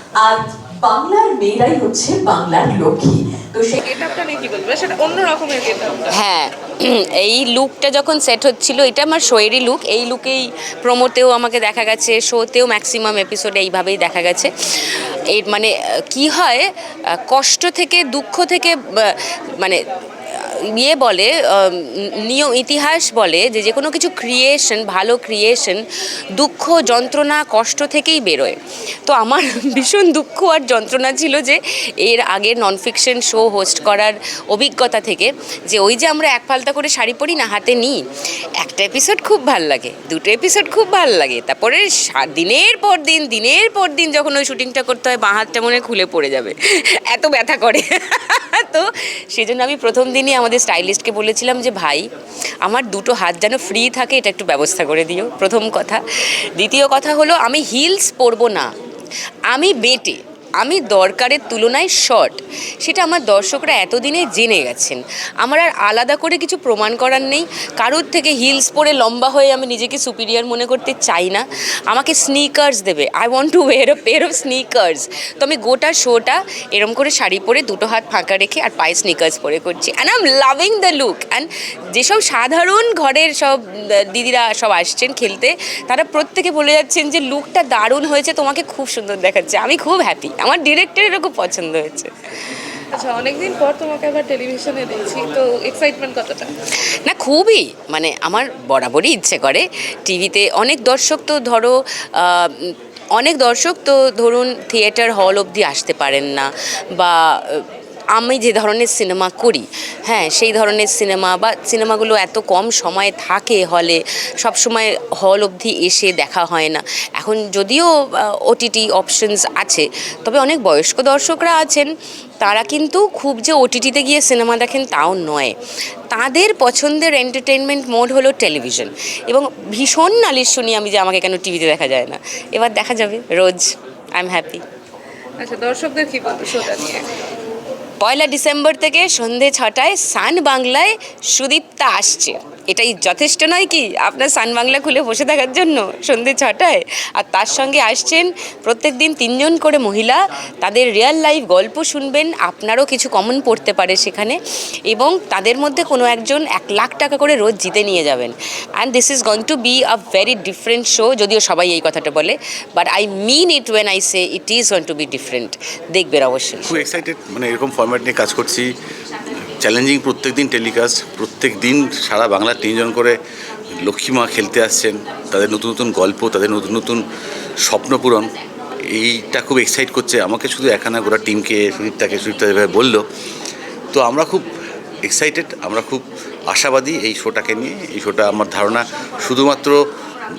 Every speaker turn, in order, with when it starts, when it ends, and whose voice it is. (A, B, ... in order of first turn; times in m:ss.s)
0:00.2-0:03.8 A
0:03.8-0:06.1 B
0:06.1-0:16.7 C
0:17.3-0:25.8 C
0:26.4-0:38.0 C
0:38.6-0:52.0 C
0:52.6-0:56.0 C
0:56.6-0:58.7 C
0:59.5-1:32.6 C
1:32.9-1:36.5 B
1:37.0-1:57.9 C
1:58.5-2:01.9 C
2:02.4-2:05.5 C
2:06.1-2:14.6 C
2:15.4-2:17.0 B
2:18.0-2:34.4 C
2:34.9-2:47.0 C
2:46.6-2:48.7 D
2:49.5-2:53.2 D
2:53.8-2:57.0 D
2:57.6-2:58.3 D
2:58.9-3:03.0 D
3:03.9-3:04.4 D
3:05.0-3:09.8 D